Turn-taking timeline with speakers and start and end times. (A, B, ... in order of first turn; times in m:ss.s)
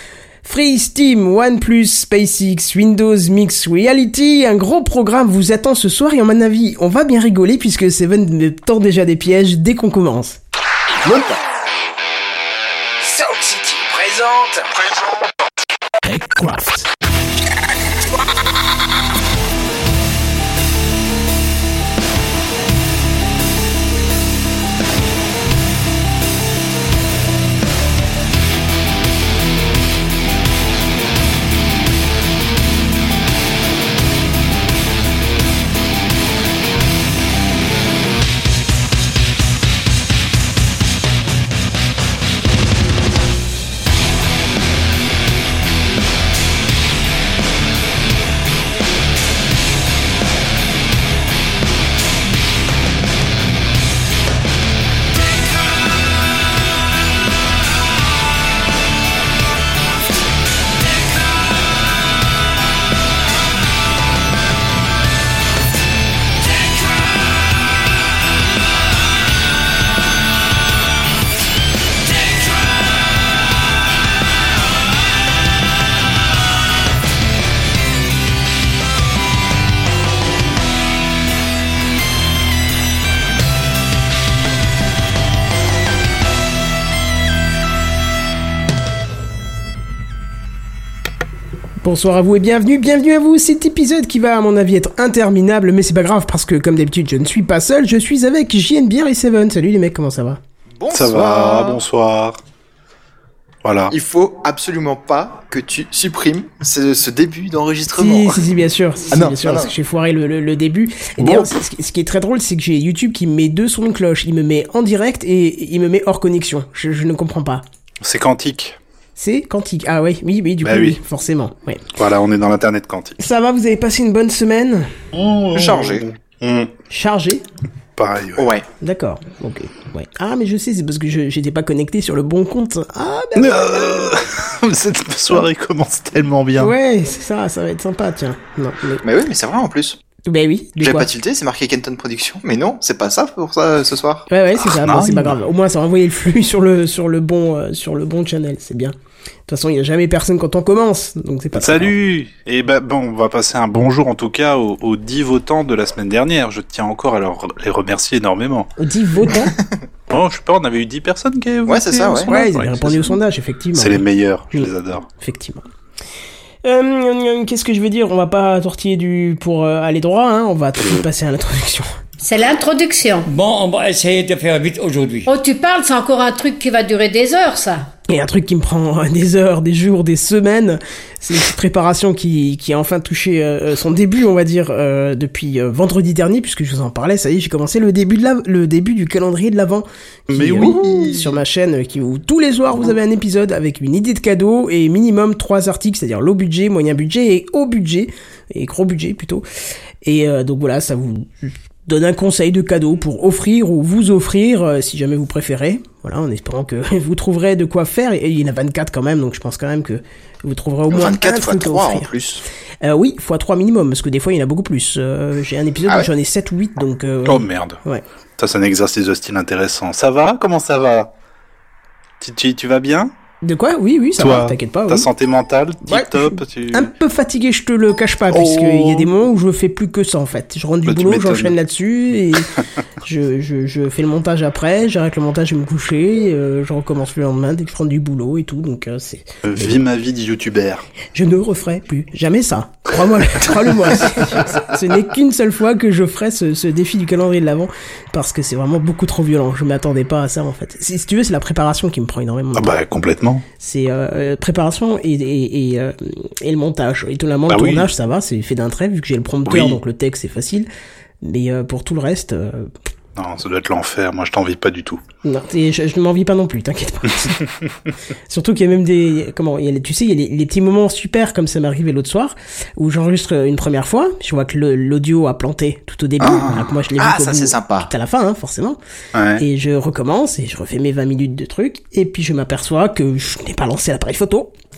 0:00.4-0:10.4 A
0:16.0-0:16.8 A
1:31.8-1:40.4 A
1:40.8-1:41.8 B
1:40.9-1:42.4 C
1:43.6-1:43.9 C
1:43.9-1:48.4 B
1:47.9-1:57.6 A
1:49.1-1:49.7 B
1:51.2-1:51.5 C
1:58.0-1:58.8 C
1:59.2-2:01.8 A
2:00.6-2:01.0 C
2:02.0-2:03.2 C
2:03.2-2:04.9 A
2:05.1-2:06.7 C
2:05.5-2:06.1 B
2:06.9-2:07.4 A
2:08.0-2:08.5 C
2:08.4-2:08.7 B
2:08.8-2:13.9 A
2:13.4-2:16.7 C
2:16.6-2:19.0 A
2:19.0-2:20.0 B
2:20.3-2:21.1 A
2:20.8-2:24.3 B
2:24.3-2:28.9 A
2:24.6-2:25.4 C
2:29.5-2:31.9 A
2:31.5-2:38.7 C
2:38.8-2:39.6 A
2:40.1-2:43.2 C
2:41.7-2:42.3 B
2:42.3-2:45.6 A
2:43.7-2:45.1 C
2:46.6-2:51.9 A
2:52.2-2:53.3 D
2:53.2-2:55.3 E
2:55.2-2:57.9 D
2:58.1-3:19.4 A
3:10.3-3:11.4 C
3:20.0-3:32.1 A
3:30.9-3:32.4 B
3:32.8-3:38.0 A
3:37.2-3:37.8 C
3:38.4-3:41.1 C
3:42.2-3:43.1 C
3:43.4-3:45.1 A
3:44.2-3:46.9 C
3:45.8-3:59.8 A
3:48.3-3:49.1 C
3:50.8-3:51.6 C
3:59.4-4:00.8 C
4:01.1-4:12.7 A
4:04.0-4:04.6 C
4:12.5-4:13.4 C
4:13.6-4:20.7 A
4:17.5-4:17.9 C
4:19.4-4:19.8 C
4:21.2-4:22.7 A
4:23.2-4:25.0 C
4:25.2-4:27.4 A
4:28.3-4:38.8 A
4:36.2-4:37.9 B
4:36.3-4:36.6 C
4:39.1-4:39.4 C
4:39.4-4:44.5 A